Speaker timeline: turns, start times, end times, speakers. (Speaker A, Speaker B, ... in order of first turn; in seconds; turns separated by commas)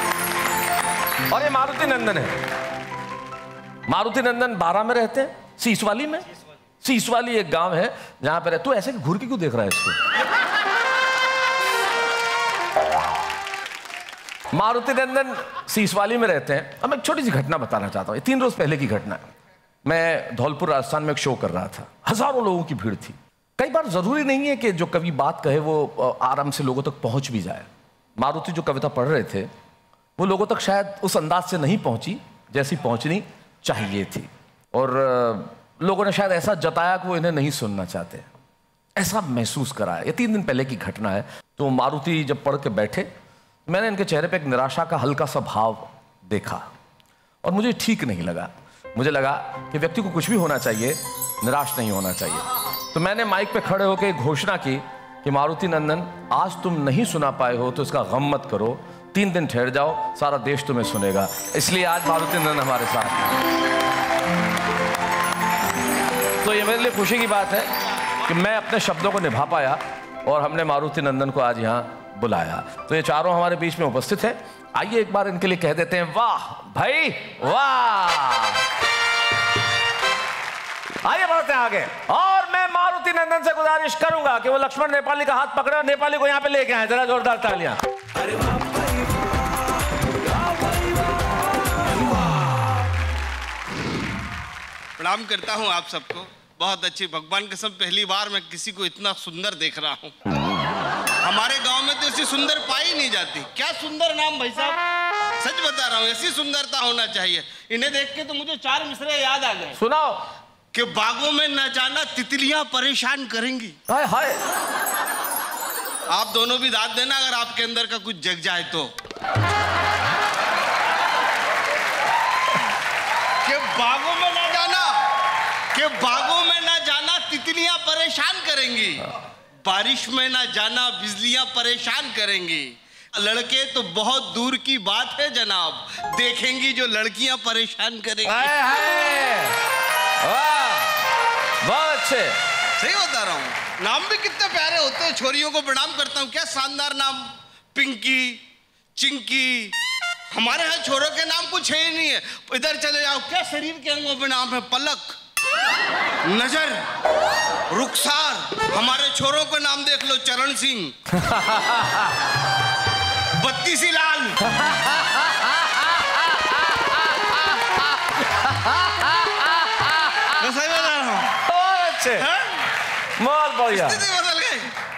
Speaker A: 1.3-2.4, Speaker A: 3.9-6.2, Speaker A: 6.8-10.0, Speaker A: 14.5-19.2, Speaker A: 19.8-29.5, Speaker A: 30.2-38.3, Speaker A: 39.0-43.1, Speaker A: 43.7-46.7, Speaker A: 47.4-63.4, Speaker A: 66.4-67.7, Speaker A: 68.2-78.6, Speaker A: 81.0-87.8, Speaker B: 95.0-100.1, Speaker B: 101.2-104.8, Speaker B: 105.4-109.8, Speaker A: 109.8-110.2, Speaker B: 110.7-113.8, Speaker A: 113.9-114.4, Speaker B: 116.1-118.9, Speaker B: 123.4-125.0, Speaker B: 125.7-129.1, Speaker B: 129.6-138.5, Speaker A: 138.2-139.6, Speaker A: 140.2-141.1, Speaker A: 141.6-142.4, Speaker B: 142.8-148.4, Speaker B: 148.9-149.7, Speaker B: 150.3-155.2, Speaker B: 156.2-156.8, Speaker B: 157.7-160.9, Speaker A: 161.1-162.2, Speaker B: 163.3-164.4, Speaker A: 164.4-170.4, Speaker B: 170.4-171.3, Speaker A: 171.5-172.2, Speaker B: 172.2-172.6, Speaker A: 173.2-174.0, Speaker B: 173.7-174.7